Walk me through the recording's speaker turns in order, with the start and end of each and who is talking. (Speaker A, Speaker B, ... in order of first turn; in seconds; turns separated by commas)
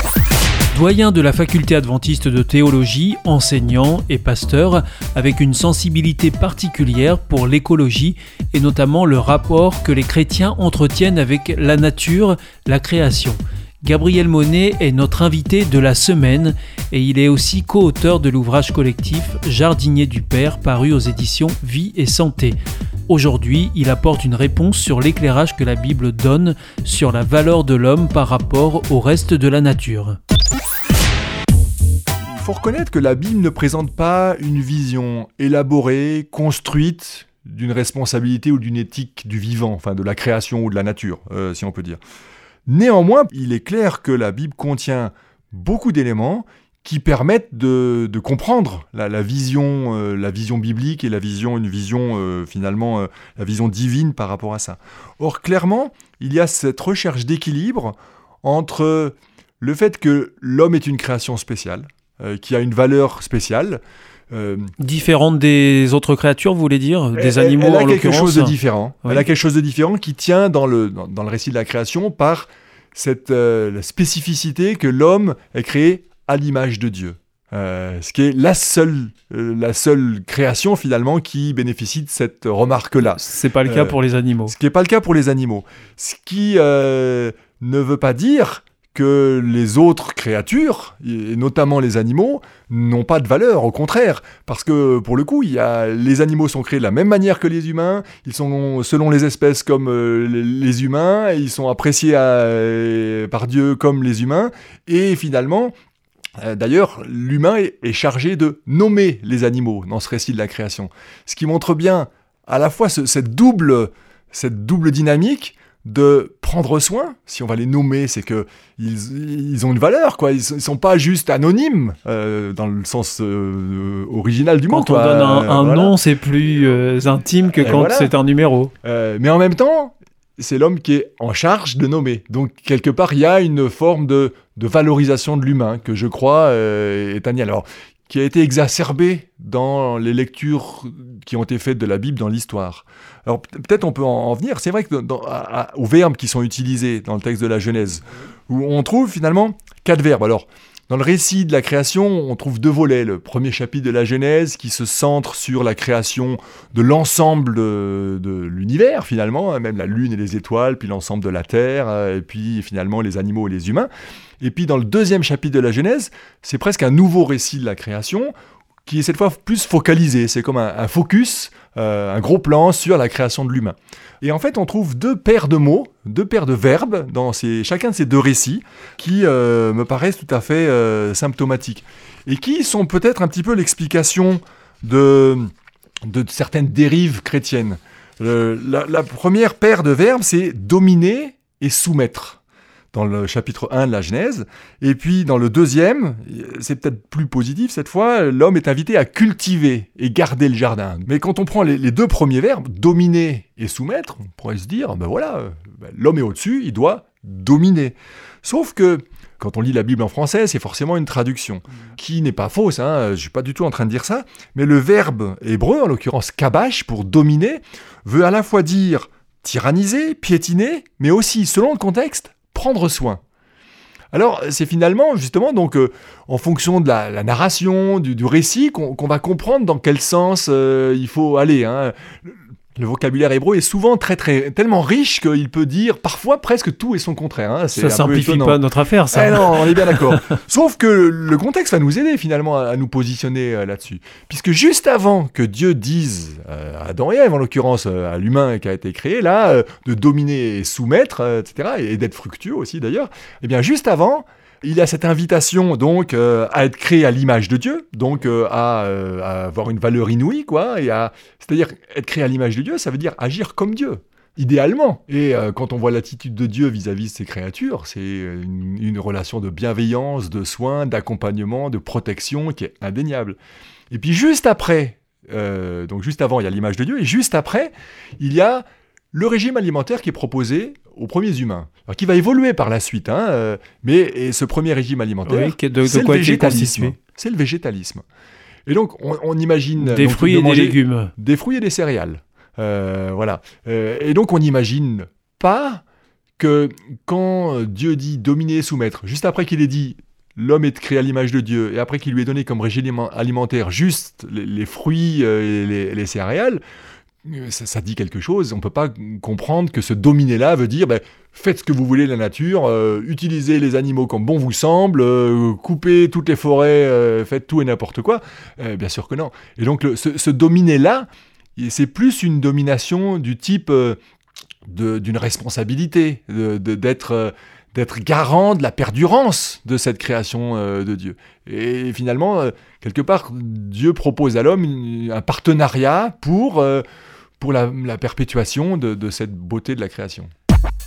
Speaker A: 0.7-30.2, Speaker B: 32.2-42.0, Speaker B: 42.7-64.7, Speaker A: 64.8-69.3, Speaker B: 67.2-105.7, Speaker A: 83.1-84.5, Speaker B: 106.4-126.0, Speaker A: 124.7-128.7, Speaker B: 127.6-128.1, Speaker B: 128.8-163.9, Speaker B: 164.4-168.3, Speaker B: 168.9-185.5, Speaker B: 186.0-192.4, Speaker B: 192.9-223.2, Speaker B: 224.1-238.6, Speaker A: 237.7-240.3, Speaker B: 239.1-273.4, Speaker B: 273.9-288.0, Speaker A: 285.3-287.0, Speaker B: 288.7-295.8, Speaker A: 289.8-291.1, Speaker B: 296.4-306.6, Speaker B: 307.2-324.0, Speaker B: 324.7-336.8, Speaker B: 337.4-340.3